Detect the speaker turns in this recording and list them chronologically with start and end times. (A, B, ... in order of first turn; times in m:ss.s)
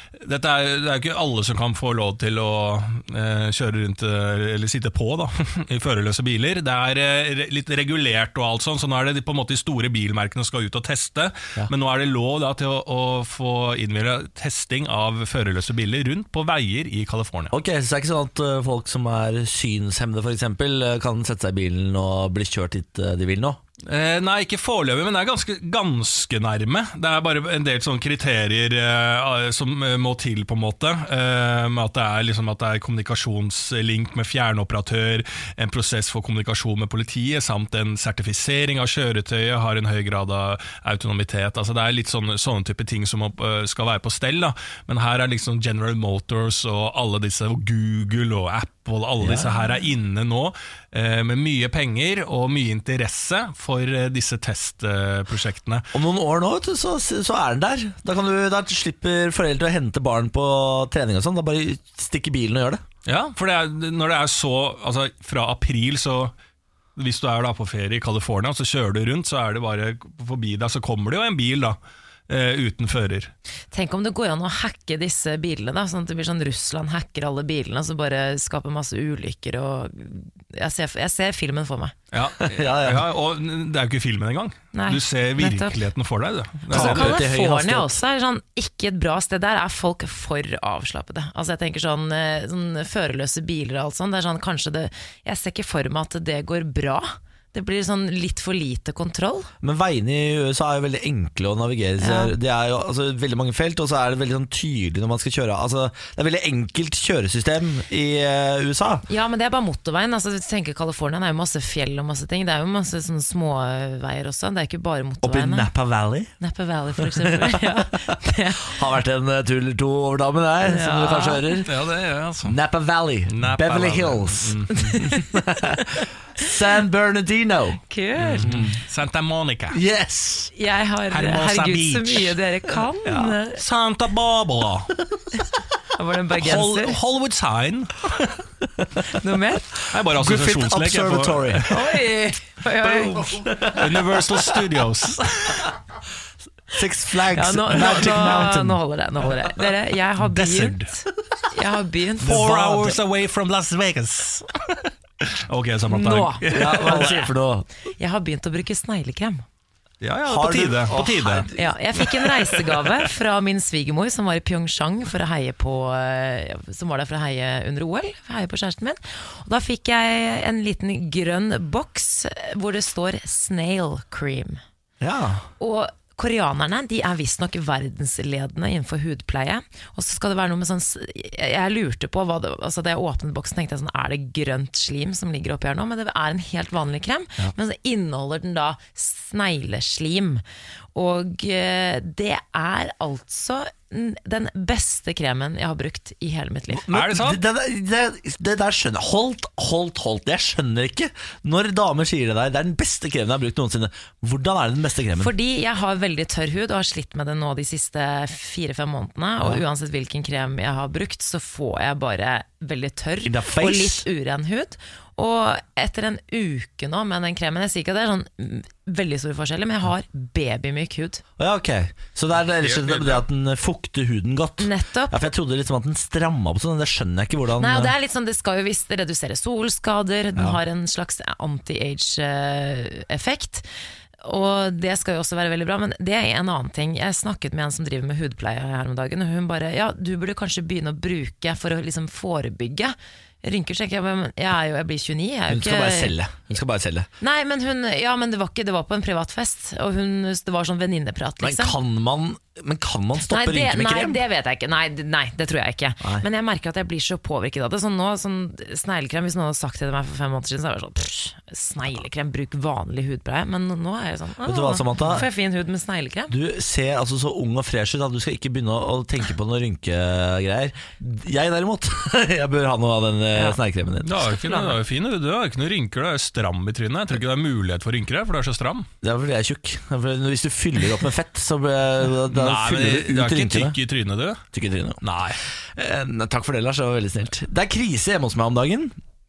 0:00.2-0:17.5 A
0:17.5-0:23.6 B
0:23.9-0:55.9 A
0:49.2-0:49.6 B
0:55.9-1:02.8 B
1:03.1-1:06.3 A
1:07.0-1:11.8 A
1:12.3-1:13.3 A
1:13.7-1:22.0 C
1:22.1-1:27.2 A
1:22.4-1:23.1 B
1:24.7-1:25.8 C
1:26.7-1:28.0 B
1:26.7-1:39.5 C
1:39.6-1:49.0 B
1:42.0-1:42.3 C
1:49.1-1:55.7 C
1:55.2-1:56.3 B
1:56.4-1:58.8 C
1:57.0-1:57.9 B
1:58.6-2:01.7 B
2:00.6-2:01.6 C
2:01.7-2:02.6 A
2:02.4-2:07.8 B
2:03.3-2:05.0 A
2:04.8-2:05.3 C
2:07.9-2:08.6 C
2:08.2-2:09.8 A
2:08.4-2:08.8 B
2:09.7-2:10.5 B
2:10.6-2:13.6 C
2:11.1-2:12.4 A
2:13.5-2:14.9 A
2:16.0-2:17.0 C
2:16.4-2:18.4 A
2:19.1-2:19.7 C
2:19.9-2:21.8 A
2:20.1-2:21.7 B
2:21.7-2:23.4 C
2:22.8-2:24.7 B
2:23.7-2:25.7 A
2:26.7-2:29.3 B
2:27.3-2:32.5 C
2:30.2-2:30.9 A
2:32.2-2:37.3 A
2:32.2-2:33.0 B
2:35.9-2:36.5 C
2:36.5-2:37.7 B
2:38.0-2:39.4 C
2:40.0-2:41.5 A
2:40.2-2:41.7 B
2:41.6-2:54.6 C
2:55.0-2:55.5 B
2:55.6-3:10.4 C
3:11.0-3:16.9 C
3:16.7-3:25.3 B
3:16.9-3:17.4 A
3:25.2-3:41.2 C
3:33.2-3:34.1 B
3:41.4-3:47.9 B
3:42.6-3:43.2 A
3:44.6-3:45.3 C
3:47.6-3:53.7 C
3:54.2-4:06.1 C
4:05.5-4:07.1 B
4:07.2-4:11.8 C
4:11.4-4:14.2 B
4:13.2-4:26.3 C
4:16.0-4:16.3 B
4:24.4-4:25.3 B
4:26.3-4:34.3 B
4:34.0-4:38.9 A
4:34.3-4:34.8 C
4:39.0-4:43.8 B
4:42.3-4:44.4 A
4:44.5-4:45.0 B
4:45.0-4:45.4 A
4:45.8-4:49.0 B